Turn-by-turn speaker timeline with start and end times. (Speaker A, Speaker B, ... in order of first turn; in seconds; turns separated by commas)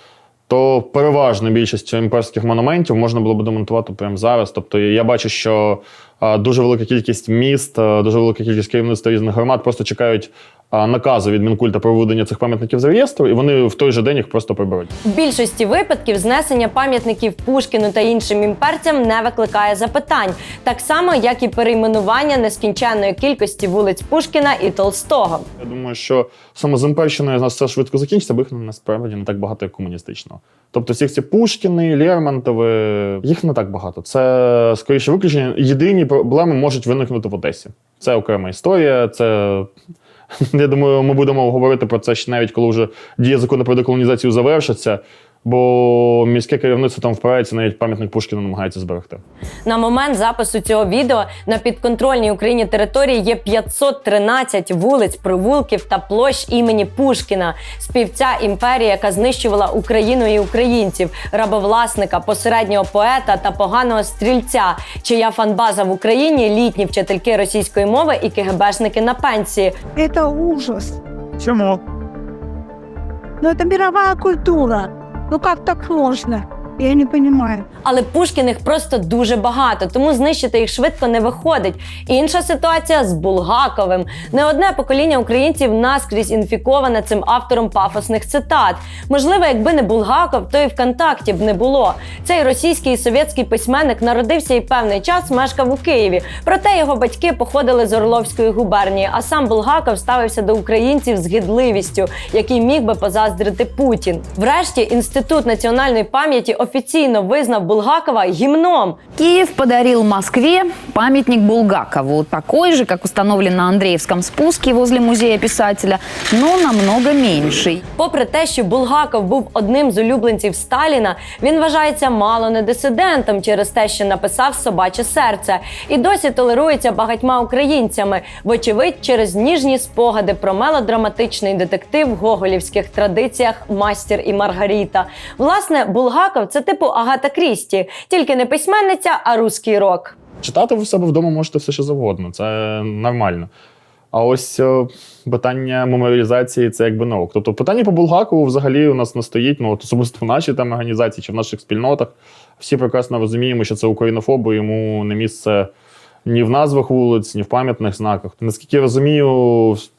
Speaker A: 0.5-14.9, Speaker B: 15.0-25.5, Speaker A: 25.6-39.7, Speaker A: 40.5-49.2, Speaker B: 49.6-69.8, Speaker C: 70.0-71.0, Speaker C: 73.4-77.7, Speaker B: 77.8-109.0, Speaker D: 109.2-117.8, Speaker B: 118.0-140.1, Speaker A: 140.4-143.5, Speaker A: 144.1-155.7, Speaker A: 156.2-159.8